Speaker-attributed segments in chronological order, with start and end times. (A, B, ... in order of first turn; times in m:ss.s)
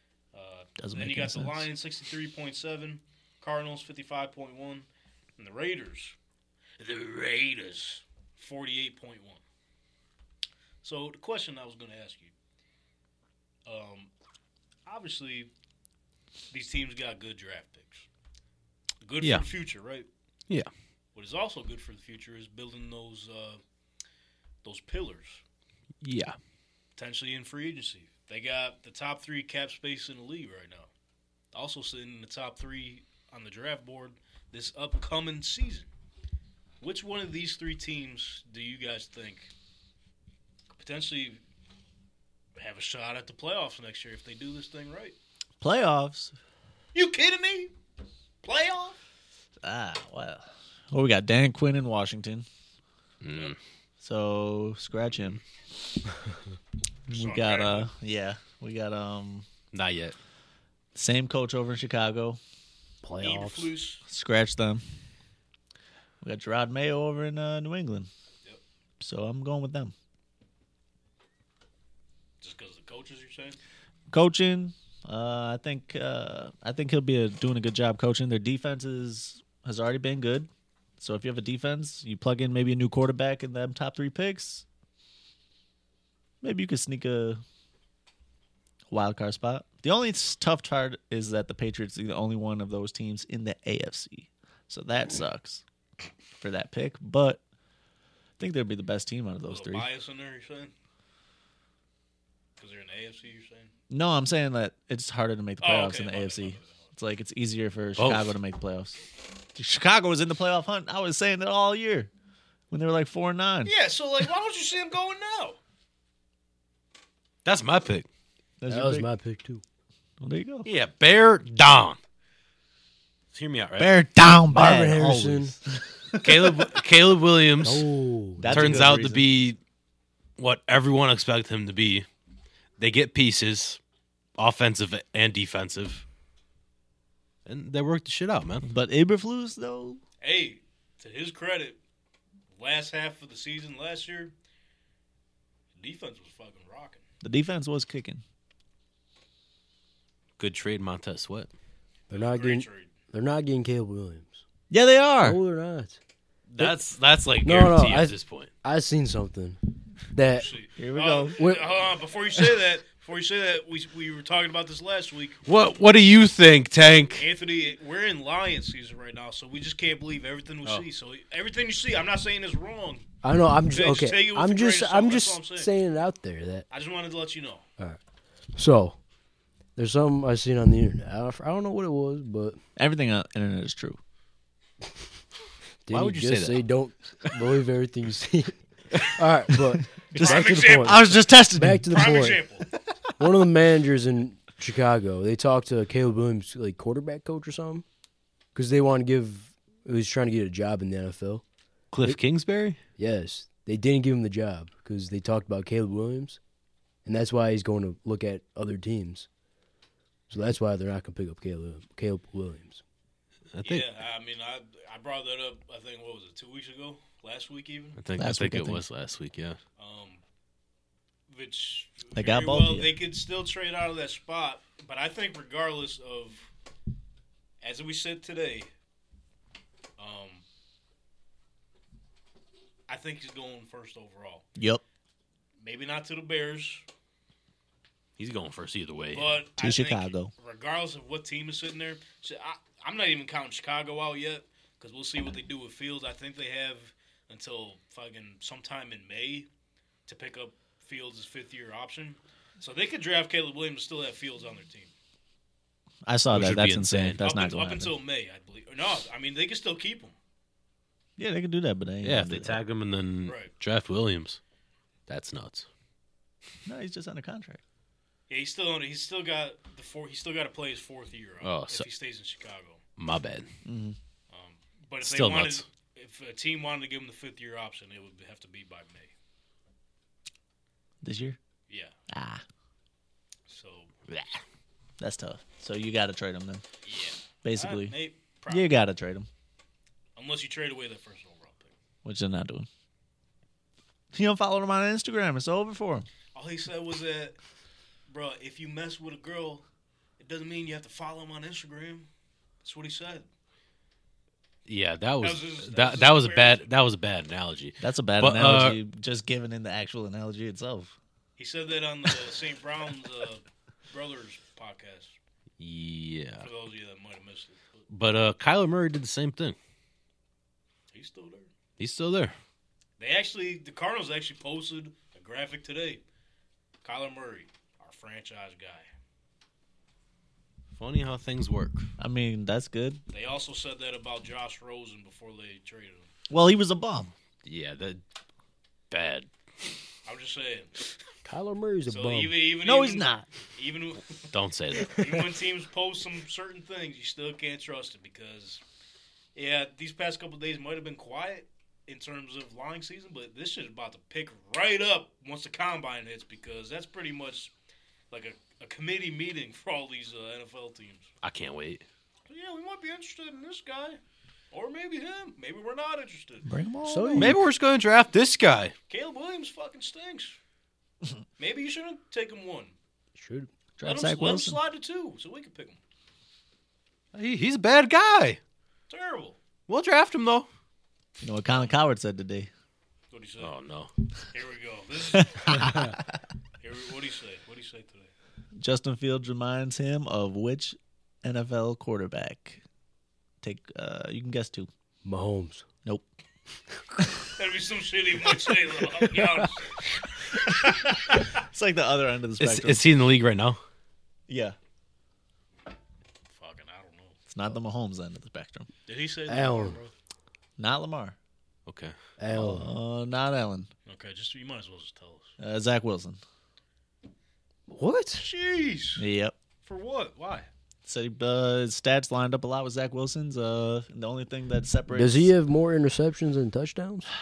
0:00.3-0:04.9 A
0:00.8-0:01.7 B
0:05.4-0:06.2 A
0:06.8-0:09.4 A
0:10.8-0:12.3 A
0:13.6-0:14.1 A
0:14.8-0:15.5 A
0:16.5-0:18.1 A
0:19.0-0:20.1 A
0:21.1-0:23.6 A
0:24.6-0:25.4 A
0:26.0-0:26.4 C
0:27.0-0:30.9 A
0:31.5-0:35.9 A
0:36.8-0:39.5 A
0:40.7-0:41.4 A
0:42.6-0:45.2 A
0:45.6-0:46.3 B
0:46.9-0:47.7 A
0:48.4-0:49.0 A
0:49.6-0:52.4 B
0:53.2-0:53.6 C
0:54.0-0:55.4 B
0:57.1-0:59.4 B
0:57.1-0:57.9 A
0:59.7-1:00.2 C
1:00.9-1:02.4 B
1:03.0-1:03.7 D
1:03.2-1:04.0 A
1:04.0-1:04.8 B
1:06.2-1:08.1 B
1:09.0-1:09.9 B
1:12.4-1:13.6 A
1:14.1-1:24.6 B
1:26.4-1:27.4 B
1:28.9-1:35.6 B
1:36.3-1:37.4 B
1:38.4-1:39.9 B
1:39.5-1:40.7 A
1:42.6-1:43.7 A
1:43.9-1:49.0 B
1:45.6-1:46.9 A
1:48.0-1:48.3 C
1:49.5-1:52.1 B
1:52.7-1:53.7 B
1:53.6-1:55.6 A
1:57.4-1:58.1 C
1:58.6-1:59.1 B
1:58.7-1:59.6 D
2:00.2-2:00.7 B
2:00.6-2:02.0 C
2:03.3-2:03.9 C
2:03.8-2:06.7 B
2:04.5-2:05.5 D
2:06.2-2:07.9 C
2:07.6-2:08.8 D
2:08.4-2:09.2 B
2:08.5-2:09.6 C
2:10.4-2:12.0 C
2:12.8-2:13.8 C
2:14.4-2:16.0 C
2:17.4-2:18.7 C
2:18.7-2:20.0 B
2:20.2-2:21.8 A
2:22.5-2:24.3 A
2:25.7-2:27.0 A
2:27.2-2:28.2 B
2:30.4-2:31.5 C
2:32.1-2:32.9 A
2:32.1-2:34.4 D
2:34.7-2:35.4 B
2:35.2-2:36.0 D
2:36.5-2:38.5 C
2:37.4-2:40.5 D
2:40.3-2:45.4 A
2:40.8-2:41.4 B
2:41.4-2:41.7 D
2:45.4-2:47.3 C
2:47.2-2:53.1 A
2:53.2-2:56.6 D
2:53.7-2:55.7 A
2:56.7-2:57.6 A
2:58.5-2:59.0 D
2:59.8-3:02.6 D
3:02.8-3:04.0 B
3:05.8-3:12.4 D
3:05.9-3:06.6 C
3:10.1-3:11.9 B
3:10.1-3:11.1 A
3:11.9-3:12.7 A
3:13.2-3:17.8 D
3:18.5-3:21.4 D
3:21.9-3:22.8 C
3:23.0-3:26.4 D
3:27.0-3:29.3 D
3:30.3-3:32.8 D
3:33.5-3:33.8 C
3:33.6-3:38.0 A
3:38.0-3:39.6 C
3:38.2-3:38.8 B
3:39.8-3:40.2 A
3:41.3-3:46.5 A
3:42.1-3:42.9 B
3:47.6-3:48.7 A
3:50.0-3:50.4 A
3:52.9-3:54.4 A
3:54.6-3:54.8 B
3:55.6-3:56.8 A
3:58.2-3:59.3 C
3:59.1-4:09.5 A
3:59.6-4:00.3 B
4:10.0-4:14.9 A
4:16.0-4:17.9 B
4:16.3-4:17.2 C
4:17.2-4:20.1 A
4:21.2-4:22.6 B
4:22.0-4:24.4 C
4:23.2-4:23.5 A
4:25.1-4:25.6 C
4:26.6-4:27.6 B
4:28.3-4:32.8 A
4:31.4-4:31.9 C
4:33.0-4:33.5 C
4:33.6-4:34.0 B
4:34.3-4:39.1 A
4:35.0-4:35.6 C
4:41.0-4:41.4 B
4:41.7-4:41.9 A
4:42.1-4:42.4 B
4:43.5-4:43.9 A
4:44.1-4:44.4 C
4:45.0-4:46.6 B
4:46.8-4:48.7 A
4:47.4-4:48.0 B
4:48.5-4:49.3 B
4:50.2-4:51.7 A
4:52.0-4:52.7 B
4:54.1-4:56.1 B
4:56.3-4:57.4 A
4:58.1-4:59.6 A
5:00.2-5:02.1 A
5:02.6-5:03.3 A
5:04.6-5:08.8 C
5:05.2-5:06.7 A
5:07.8-5:11.0 B
5:11.4-5:15.2 A
5:15.6-5:16.5 C
5:16.4-5:17.8 A
5:17.9-5:19.6 C
5:20.9-5:21.5 A
5:21.8-5:22.3 C
5:23.0-5:26.0 A
5:26.8-5:28.9 A
5:30.8-5:31.9 C
5:32.0-5:33.0 B
5:33.1-5:36.1 A
5:36.3-5:37.1 B
5:37.4-5:38.0 C
5:38.9-5:39.3 C
5:40.0-5:40.8 A
5:41.2-5:42.4 D
5:41.9-5:48.6 A
5:42.6-5:43.3 B
5:44.3-5:45.0 C
5:49.3-5:57.5 A
5:58.1-6:01.1 A
6:01.2-6:01.8 C
6:02.3-6:04.0 A
6:04.5-6:06.5 A
6:06.4-6:07.4 B
6:06.8-6:07.4 D
6:07.1-6:08.7 C
6:08.9-6:10.4 A
6:11.4-6:12.7 A
6:13.1-6:13.5 D
6:13.8-6:14.6 B
6:13.8-6:15.8 A
6:17.1-6:18.4 C
6:18.9-6:19.4 A
6:19.7-6:20.5 C
6:21.2-6:22.5 B
6:21.5-6:21.7 A
6:23.1-6:23.5 A
6:23.4-6:23.9 C
6:24.3-6:25.8 A
6:25.4-6:26.0 B
6:26.6-6:28.1 A
6:28.6-6:32.6 B
6:33.4-6:34.7 B
6:35.0-6:35.6 D
6:37.4-6:41.3 A
6:40.5-6:42.8 B
6:42.4-6:43.6 C
6:44.3-6:44.6 B
6:46.3-6:47.2 A
6:47.3-6:48.7 B
6:48.9-6:49.9 A
6:49.3-6:49.8 D
6:50.6-6:51.2 B
6:51.6-6:51.9 C
6:52.2-6:52.7 D
6:52.3-6:53.7 B
6:53.8-6:55.3 A
6:55.4-6:56.2 B
6:57.7-6:58.2 D
6:58.2-6:59.0 A
6:59.0-6:59.4 B
6:59.6-7:00.5 A
7:00.8-7:05.3 B
7:04.9-7:07.1 D